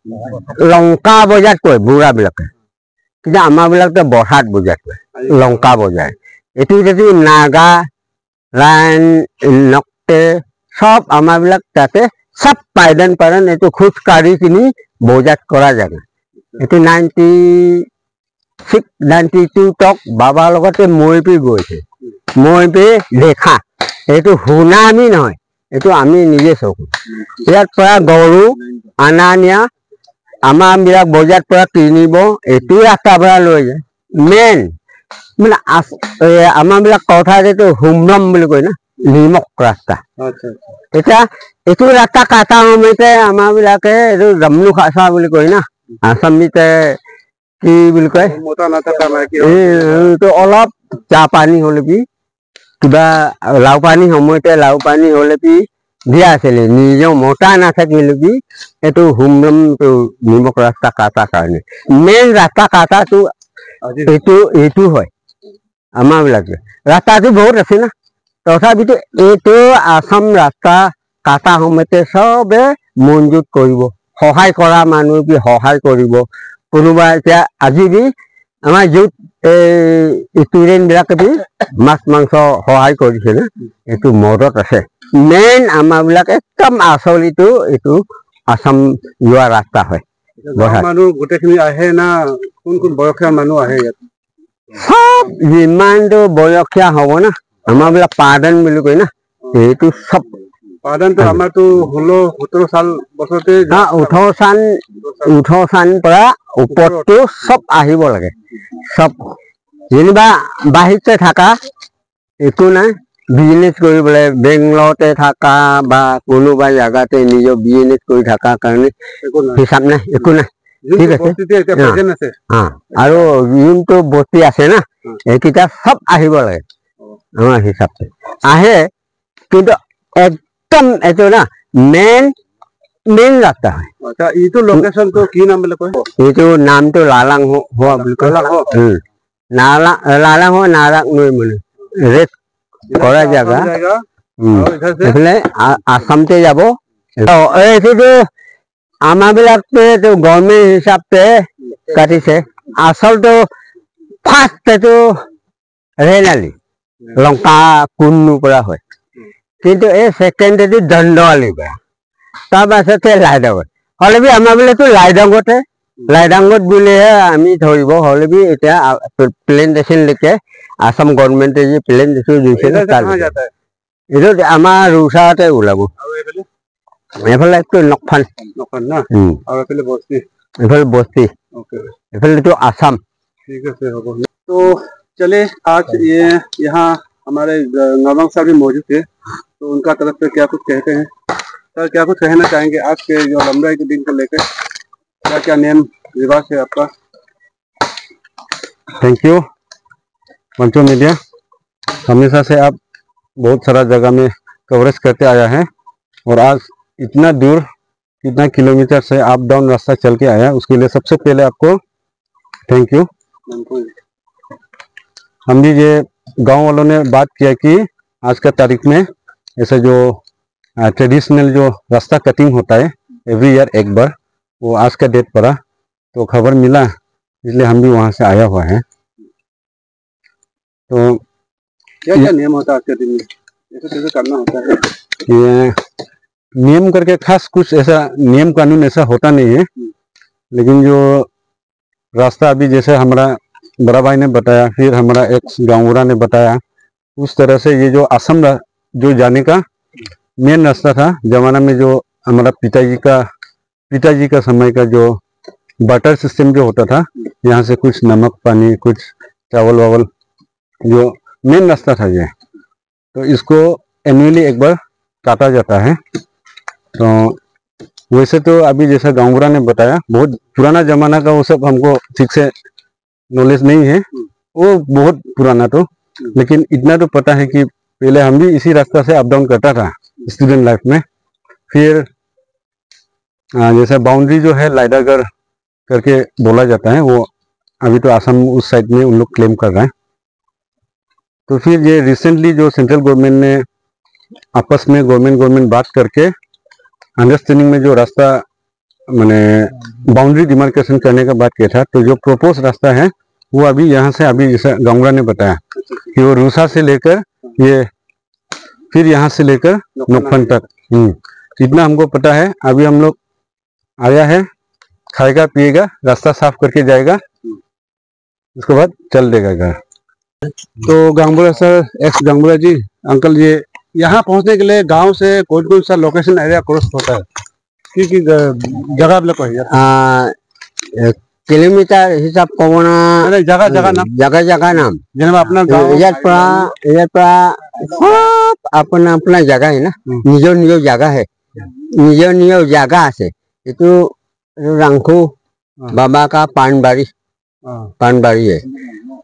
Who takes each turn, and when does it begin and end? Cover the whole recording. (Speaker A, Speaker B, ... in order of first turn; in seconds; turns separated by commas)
Speaker A: 0.3-2.5, Speaker A: 3.2-7.8, Speaker B: 5.1-5.7, Speaker A: 8.6-16.0, Speaker A: 16.6-17.9, Speaker A: 18.7-21.8, Speaker A: 22.4-29.7, Speaker A: 30.5-34.7, Speaker A: 35.4-40.0, Speaker B: 40.2-40.6, Speaker A: 40.9-47.0, Speaker A: 47.6-48.3, Speaker B: 48.2-50.1, Speaker A: 49.4-52.0, Speaker A: 52.8-63.3, Speaker B: 63.8-64.1, Speaker A: 64.1-65.1, Speaker A: 66.0-67.9, Speaker A: 68.5-78.1, Speaker A: 78.6-90.0, Speaker B: 90.4-94.0, Speaker A: 90.6-90.9, Speaker A: 94.7-100.3, Speaker B: 100.8-104.2, Speaker A: 103.7-109.4, Speaker B: 106.7-107.0, Speaker A: 109.9-111.6, Speaker A: 112.4-118.9, Speaker B: 119.2-119.6, Speaker A: 119.5-126.6, Speaker B: 120.8-122.3, Speaker A: 127.4-128.9, Speaker A: 129.5-132.3, Speaker A: 133.1-133.9, Speaker B: 134.0-136.1, Speaker A: 136.2-139.0, Speaker B: 137.9-138.7, Speaker A: 139.5-142.3, Speaker B: 142.9-144.0, Speaker A: 142.9-143.7, Speaker A: 144.4-148.3, Speaker B: 144.5-145.2, Speaker A: 149.1-151.3, Speaker A: 151.9-153.5, Speaker A: 154.2-155.2, Speaker A: 156.0-156.5, Speaker A: 157.2-158.8, Speaker A: 159.6-161.8, Speaker A: 162.5-173.3, Speaker B: 172.6-173.5, Speaker A: 174.1-175.9, Speaker B: 176.0-176.4, Speaker A: 177.2-178.3, Speaker B: 178.6-180.2, Speaker A: 179.1-179.4, Speaker A: 180.6-181.3, Speaker B: 181.5-181.9, Speaker A: 182.1-183.0, Speaker B: 183.5-189.1, Speaker B: 189.6-191.1, Speaker B: 191.8-194.4, Speaker B: 195.2-196.9, Speaker C: 199.0-199.4, Speaker C: 200.6-201.2, Speaker C: 202.0-202.8, Speaker C: 203.4-205.7, Speaker C: 206.2-207.7, Speaker C: 208.2-211.8, Speaker C: 212.7-213.1, Speaker B: 213.5-213.9, Speaker C: 215.5-219.1, Speaker C: 219.6-220.2, Speaker C: 220.8-225.6, Speaker C: 226.1-228.8, Speaker C: 230.9-231.2, Speaker B: 232.0-234.8, Speaker C: 235.2-235.8, Speaker C: 236.6-239.7, Speaker C: 240.5-241.3, Speaker C: 242.1-246.6, Speaker C: 247.2-249.6, Speaker C: 250.4-253.2, Speaker C: 253.9-255.2, Speaker C: 255.8-260.1, Speaker C: 260.8-262.3, Speaker C: 263.1-266.0, Speaker C: 266.9-267.4, Speaker C: 268.1-272.5, Speaker C: 273.3-281.0, Speaker C: 281.7-282.1, Speaker C: 283.6-285.3, Speaker C: 285.9-287.3, Speaker C: 287.8-289.9, Speaker C: 291.5-293.6, Speaker C: 294.5-296.3, Speaker C: 297.2-298.4, Speaker C: 299.1-305.6, Speaker C: 306.1-307.9, Speaker C: 308.9-313.2, Speaker B: 310.0-310.5, Speaker C: 314.0-314.5, Speaker C: 315.1-317.2, Speaker C: 318.6-319.8, Speaker B: 320.8-327.2, Speaker B: 327.9-329.7, Speaker A: 329.7-330.3, Speaker A: 330.9-335.0, Speaker B: 333.2-334.1, Speaker B: 335.1-336.7, Speaker A: 335.7-345.3, Speaker A: 345.9-347.1, Speaker B: 347.6-347.9, Speaker A: 348.0-348.6